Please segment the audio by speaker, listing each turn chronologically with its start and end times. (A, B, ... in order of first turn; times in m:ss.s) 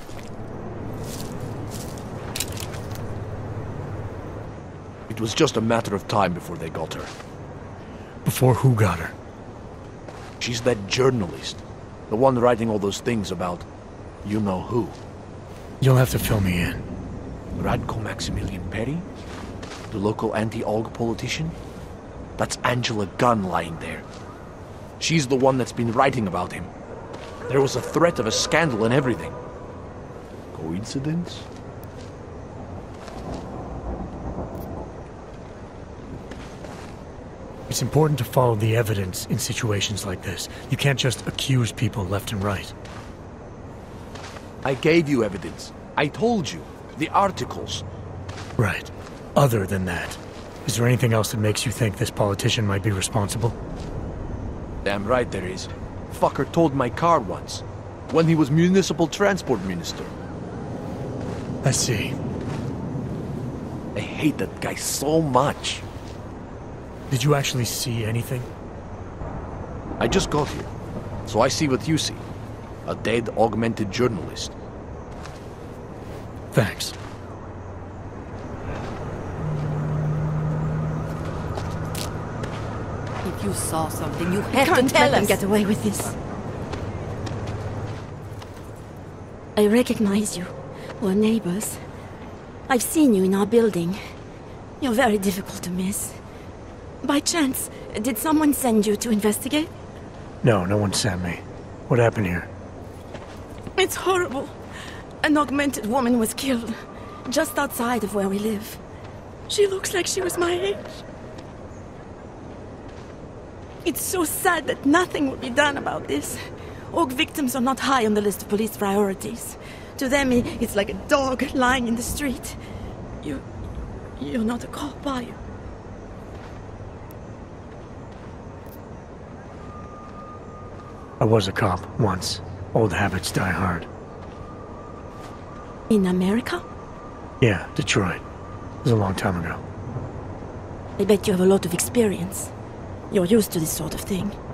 0:05.1-0:07.1 A
0:08.2-0:09.1 B
0:10.4-0:13.7 A
0:14.2-0:15.0 A
0:15.8-0:16.8 B
0:17.6-0:19.1 A
0:19.9-0:21.6 A
0:22.4-0:24.0 A
0:25.0-0:26.7 A
0:27.5-0:29.4 A
0:30.5-0:31.5 A
0:37.7-0:42.7 B
0:44.6-0:47.8 A
0:48.6-0:53.6 B
0:54.8-1:00.1 A
1:01.6-1:02.1 B
1:03.9-1:05.8 A
1:07.1-1:08.5 B
1:10.0-1:10.7 A
1:11.2-1:12.2 A
1:12.8-1:14.5 A
1:16.5-1:17.0 B
1:23.2-1:25.5 C
1:24.5-1:26.1 D
1:29.6-1:31.8 D
1:32.7-1:34.0 D
1:34.8-1:36.2 D
1:37.0-1:39.7 D
1:40.4-1:42.5 B
1:43.8-1:44.6 D
1:45.2-1:48.8 D
1:49.5-1:51.0 D
1:53.8-2:02.6 D
2:04.2-2:05.4 D
2:11.2-2:13.9 B
2:15.9-2:16.6 D
2:17.4-2:18.2 B
2:18.8-2:19.6 B
2:21.0-2:22.5 D
2:23.1-2:24.4 D